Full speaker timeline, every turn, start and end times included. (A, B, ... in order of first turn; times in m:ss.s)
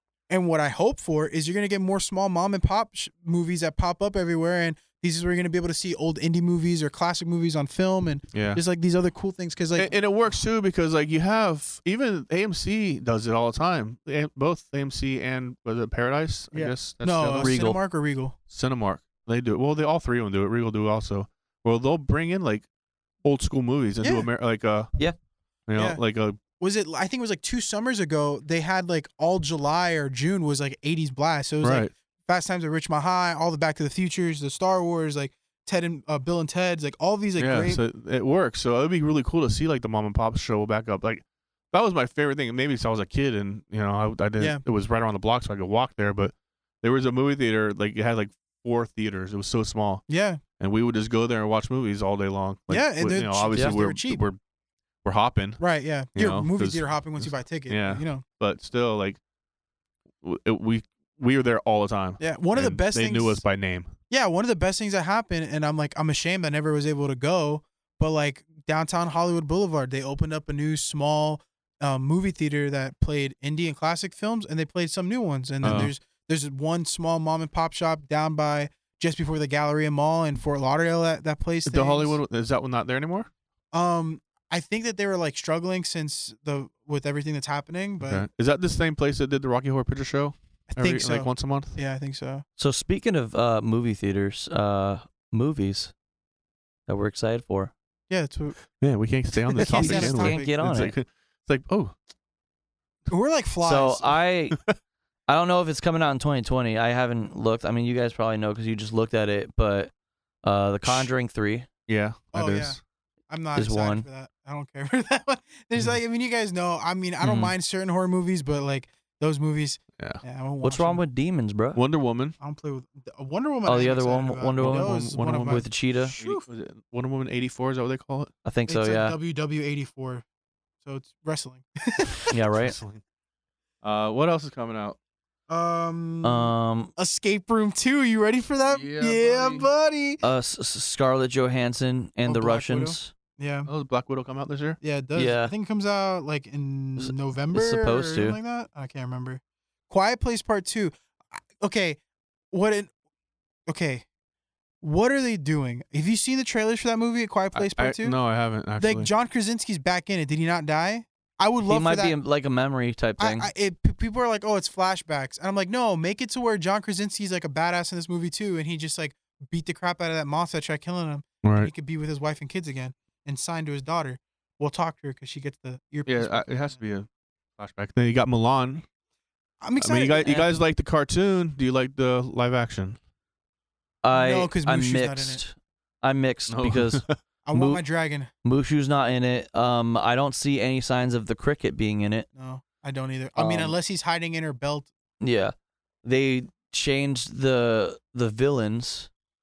0:00.3-0:09.9 A
0:08.3-0:08.6 B
0:09.8-0:17.6 B
0:16.5-0:18.4 A
0:17.4-0:17.8 C
0:18.5-0:22.6 B
0:23.2-0:24.9 B
0:24.0-0:24.3 A
0:25.7-0:26.4 B
0:25.8-0:26.0 A
0:26.6-0:37.8 A
0:31.6-0:31.9 B
0:37.4-0:50.0 B
0:50.1-0:50.4 A
0:50.6-0:54.4 B
0:52.7-0:54.2 A
0:55.0-0:55.6 B
0:55.6-0:58.2 A
0:56.2-0:59.2 B
1:00.2-1:03.9 B
1:02.2-1:03.4 A
1:04.1-1:22.2 A
1:15.6-1:15.9 B
1:21.6-1:23.3 B
1:23.7-1:28.2 A
1:28.0-1:31.8 B
1:30.7-1:32.4 A
1:32.6-1:35.9 C
1:36.9-1:37.7 C
1:38.1-1:38.6 A
1:38.8-1:42.0 B
1:39.6-1:40.5 A
1:39.6-1:40.9 C
1:43.1-1:44.2 A
1:43.6-1:44.6 C
1:45.3-1:49.9 C
1:50.4-1:51.7 C
1:51.9-1:52.8 B
1:52.3-2:01.0 A
1:53.6-1:54.0 C
1:57.2-1:57.5 C
2:00.6-2:01.8 C
2:01.8-2:02.4 B
2:02.4-2:06.5 A
2:03.7-2:06.2 C
2:04.6-2:08.3 B
2:08.4-2:09.2 C
2:08.7-2:10.2 A
2:10.8-2:12.3 A
2:12.3-2:12.8 C
2:12.5-2:13.0 B
2:13.8-2:15.0 B
2:15.5-2:20.2 A
2:16.2-2:16.9 C
2:18.7-2:19.7 B
2:20.2-2:23.1 C
2:22.3-2:23.7 A
2:23.7-2:24.8 B
2:24.8-2:32.0 A
2:25.2-2:25.5 C
2:27.0-2:28.4 C
2:32.5-2:32.9 A
2:33.7-2:34.0 A
2:34.8-2:38.2 A
2:37.5-2:39.1 B
2:38.8-2:42.2 A
2:41.7-2:43.5 C
2:43.2-2:56.6 A
2:51.4-2:51.7 B
2:56.1-2:58.9 B
2:59.6-3:00.5 A
2:59.8-3:03.0 B
3:04.0-3:07.8 C
3:04.1-3:05.4 A
3:06.5-3:07.2 B
3:07.5-3:08.3 A
3:08.4-3:12.3 C
3:12.4-3:14.9 A
3:13.4-3:13.7 C
3:15.2-3:19.1 C